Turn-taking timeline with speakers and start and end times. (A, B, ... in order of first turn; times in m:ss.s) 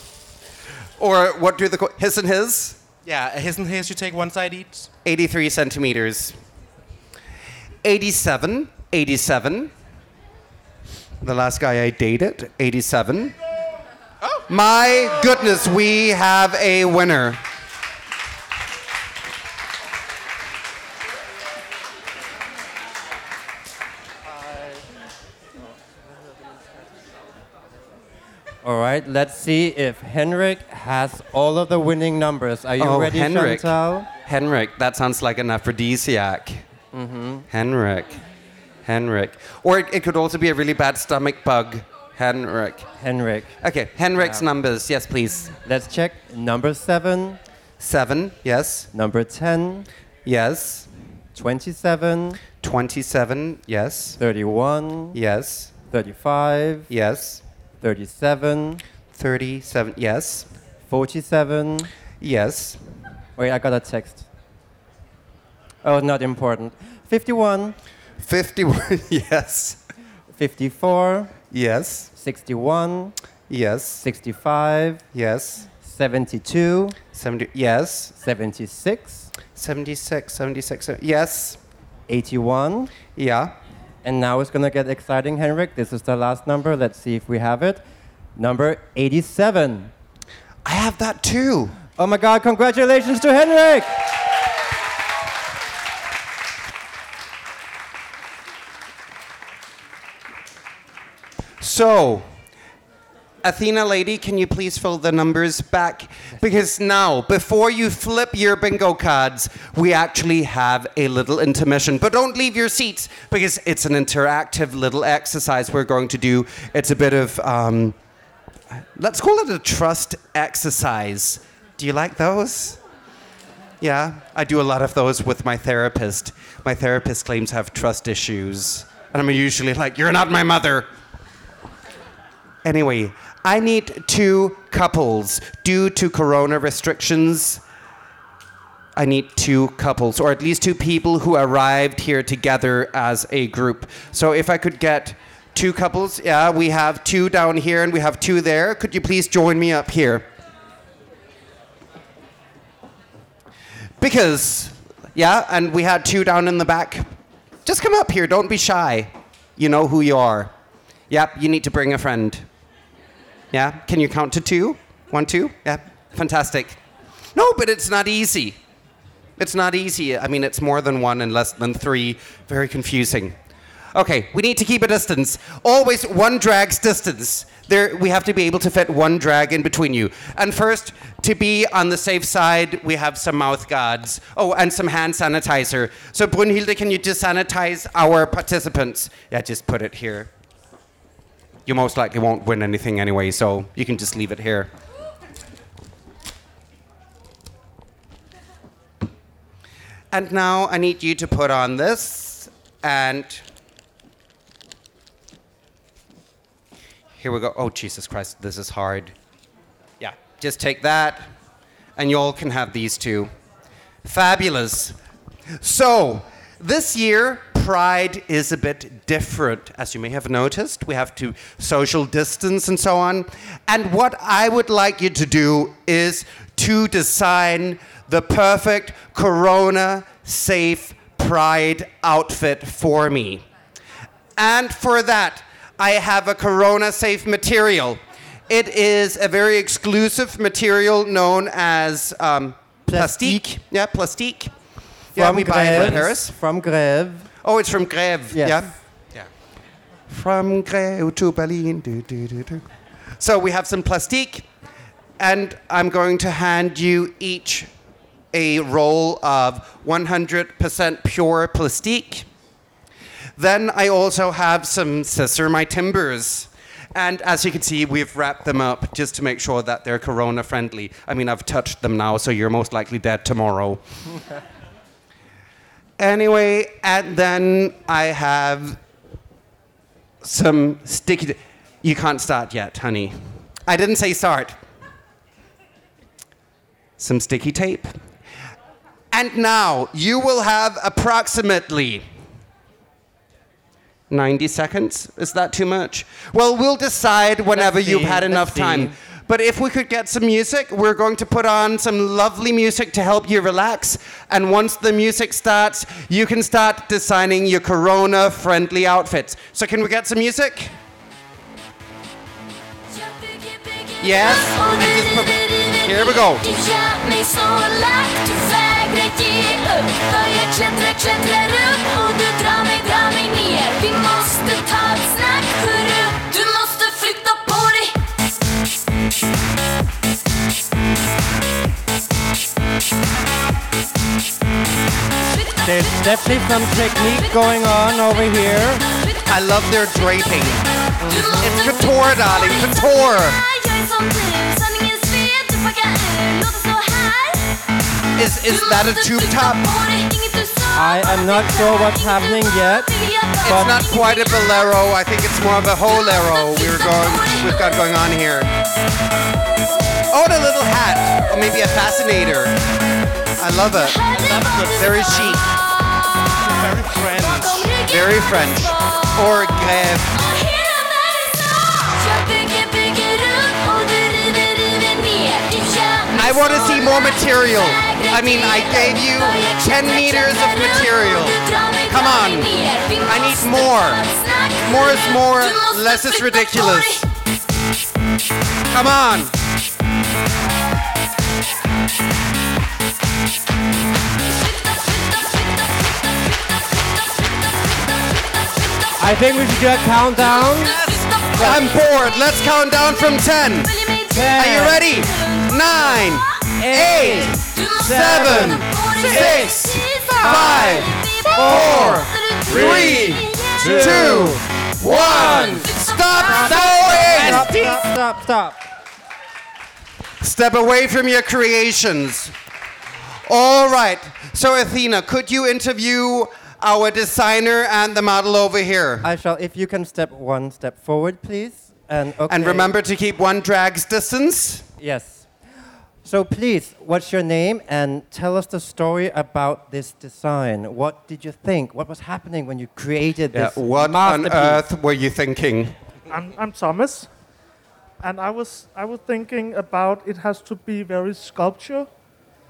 0:01.0-0:02.8 A
0:03.0-0:04.9 B
0:05.0-0:06.4 A
0:07.8-0:09.7 A
0:11.2-0:13.3 A
0:14.5-0:17.4 A
0:28.6-0:34.1 C
0:32.8-0:36.6 A
0:36.9-0:37.5 C
0:37.5-0:38.2 A
0:38.8-0:42.8 A
0:43.0-0:43.6 C
0:43.6-0:45.5 A
0:44.2-0:44.5 C
0:45.6-0:47.4 C
0:47.8-0:48.9 A
0:48.9-0:49.9 C
0:50.2-0:50.9 A
0:51.3-0:52.4 C
0:52.6-0:54.2 A
0:54.2-0:55.2 C
0:55.1-0:55.7 A
0:55.9-0:56.9 C
0:56.9-0:57.4 A
0:57.8-0:58.8 C
0:59.1-1:00.5 A
1:00.9-1:01.9 C
1:02.2-1:02.8 A
1:03.4-1:04.3 C
1:05.8-1:07.8 C
1:08.2-1:09.8 A
1:10.4-1:11.3 C
1:11.5-1:12.1 A
1:12.2-1:13.1 C
1:13.5-1:14.0 A
1:14.0-1:15.0 C
1:15.1-1:15.7 A
1:15.8-1:17.0 C
1:17.1-1:18.1 A
1:18.2-1:19.3 C
1:19.5-1:21.6 A
1:22.1-1:22.9 C
1:23.2-1:23.5 A
1:24.0-1:27.8 C
1:28.4-1:29.9 C
1:30.6-1:31.8 A
1:32.0-1:34.0 C
1:41.6-1:42.3 A
1:43.4-1:58.0 A
1:58.8-2:02.8 A
2:03.8-2:10.9 A
2:12.6-2:17.6 A
2:19.0-2:30.3 A
2:34.0-2:37.1 A
2:37.6-2:40.5 A
2:41.1-2:42.4 A
2:43.5-2:46.8 A
2:47.3-2:48.6 A
2:49.4-2:53.4 A
2:53.9-3:10.3 A
3:11.6-3:14.7 A
3:20.1-3:23.4 A
3:27.2-3:29.1 A
3:30.0-3:31.3 A
3:32.0-3:33.3 A
3:34.0-3:35.0 A
3:35.6-3:53.4 A
3:54.4-4:04.5 A
4:02.9-4:03.4 C
4:05.1-4:06.3 A
4:05.1-4:07.3 C
4:07.4-4:08.7 A
4:08.3-4:08.7 C
4:10.1-4:12.6 A
4:13.2-4:14.5 A
4:15.2-4:17.7 A
4:18.3-4:22.3 A
4:23.4-4:33.8 A
4:36.0-4:38.8 A
4:40.2-4:44.6 A
4:47.0-4:48.0 A
4:49.1-4:52.0 A
4:54.1-5:10.7 A
4:57.5-4:58.9 C
5:12.9-5:28.1 D
5:14.0-5:16.4 A
5:35.3-5:47.6 D
5:35.6-5:38.8 C
5:39.3-5:43.4 A
5:41.0-5:41.9 C
5:48.2-5:49.7 A
5:48.4-5:54.8 D
5:50.7-5:52.9 C
5:53.4-5:53.8 C
5:53.4-5:58.5 A
5:55.8-5:58.1 D
6:00.1-6:02.6 A
6:03.4-6:04.1 A
6:03.5-6:27.1 D
6:04.1-6:05.3 B
6:04.8-6:05.4 A
6:06.3-6:07.8 B
6:07.9-6:10.2 A
6:16.1-6:24.0 A
6:24.6-6:27.0 A
6:28.7-6:29.3 A
6:34.6-6:35.5 D
6:39.0-6:41.7 C
6:40.3-6:57.2 D
6:40.6-6:43.8 A
6:44.1-6:44.8 C
6:44.3-6:57.5 A
6:46.6-6:58.6 C
6:51.3-6:52.0 B
6:56.8-6:57.9 B
7:00.2-7:02.3 A
7:03.3-7:09.1 A
7:09.0-7:12.7 C
7:12.3-7:14.7 A
7:14.8-7:15.3 C
7:16.0-7:24.6 C
7:23.3-7:25.7 A
7:26.1-7:27.1 E
7:28.0-7:31.9 E